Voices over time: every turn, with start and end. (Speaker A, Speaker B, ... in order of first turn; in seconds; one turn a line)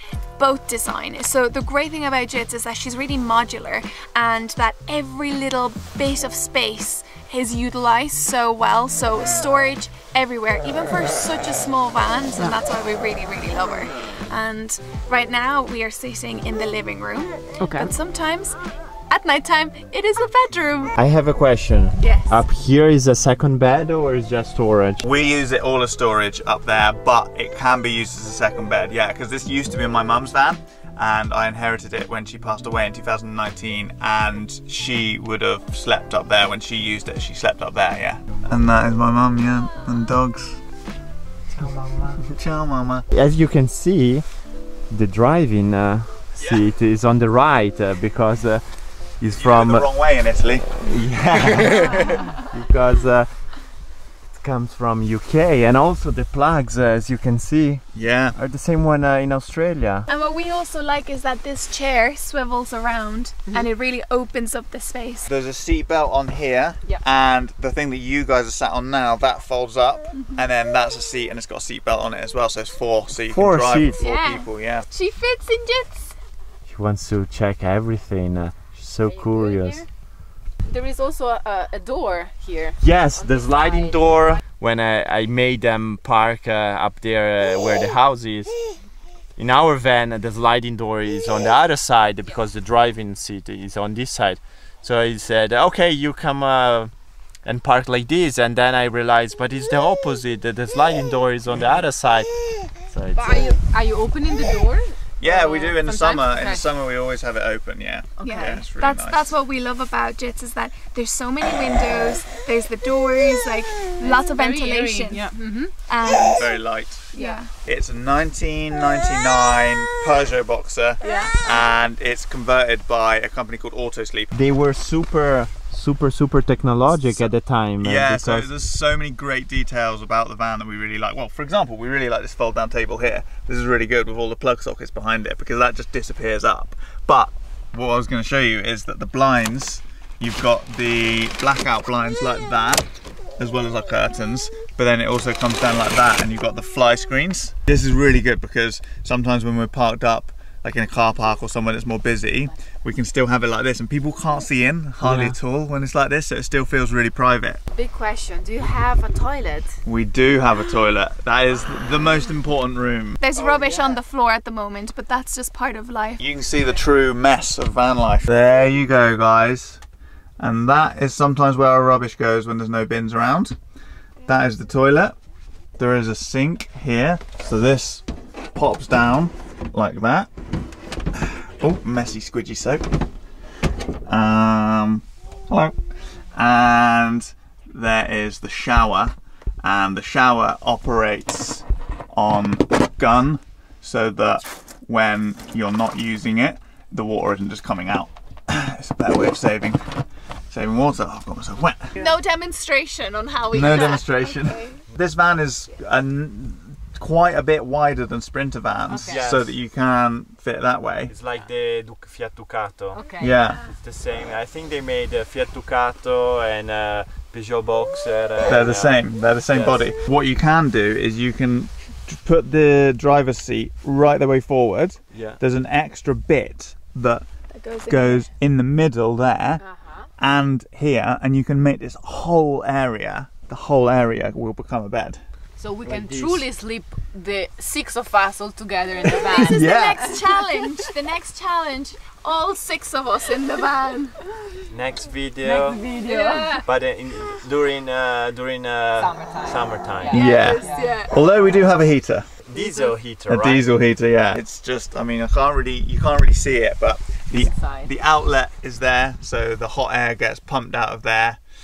Speaker A: 0.4-20.9
Speaker B: 17.6-17.9
Speaker C: 20.9-25.1
Speaker A: 22.0-22.4
Speaker D: 25.0-40.6
Speaker B: 41.6-42.1
Speaker D: 42.1-43.1
Speaker C: 43.1-49.9
Speaker D: 46.4-46.6
Speaker D: 49.4-52.1
Speaker C: 50.8-53.6
Speaker C: 54.3-60.1
Speaker D: 57.9-58.4
Speaker A: 60.1-65.3
Speaker D: 65.2-74.9
Speaker C: 73.3-74.0
Speaker A: 73.9-76.1
Speaker C: 76.7-79.8
Speaker B: 79.0-79.9
Speaker B: 80.7-84.4
Speaker C: 82.8-88.6
Speaker C: 89.3-103.5
Speaker B: 103.1-106.6
Speaker D: 105.2-109.2
Speaker B: 108.2-108.6
Speaker A: 108.2-115.3
Speaker B: 114.0-115.7
Speaker A: 115.9-117.5
Speaker D: 116.2-124.3
Speaker B: 117.1-117.4
Speaker A: 121.0-121.4
Speaker B: 121.0-121.3
Speaker C: 124.3-128.5
Speaker D: 127.0-157.6
Speaker C: 155.0-155.3
Speaker B: 157.7-159.8
Speaker D: 159.8-163.2
Speaker A: 163.2-166.2
Speaker B: 163.4-163.9
Speaker D: 166.2-169.8
Speaker D: 170.4-173.6
Speaker D: 174.2-175.2
Speaker D: 175.8-178.0
Speaker D: 178.5-180.3
Speaker D: 181.2-182.8
Speaker D: 184.1-185.8
Speaker D: 186.3-200.0
Speaker D: 200.5-201.9
Speaker A: 201.9-204.8
Speaker D: 203.5-211.1
Speaker B: 208.9-209.2
Speaker C: 209.0-209.5
Speaker C: 211.1-213.0
Speaker B: 212.9-213.5
Speaker D: 213.2-213.6
Speaker C: 213.6-219.8
Speaker D: 218.4-227.2
Speaker C: 225.1-225.4
Speaker A: 227.5-228.2
Speaker D: 227.8-229.6
Speaker B: 229.6-230.1
Speaker D: 230.2-235.2
Speaker B: 235.6-240.3
Speaker C: 235.8-236.4
Speaker A: 239.2-244.2
Speaker D: 239.3-240.2
Speaker C: 244.7-245.8
Speaker B: 245.4-246.6
Speaker A: 246.0-247.4
Speaker C: 246.6-250.4
Speaker B: 249.0-250.9
Speaker A: 250.1-251.1
Speaker D: 250.1-252.3
Speaker C: 252.4-253.7
Speaker B: 252.6-252.9
Speaker D: 253.3-261.4
Speaker B: 257.3-257.9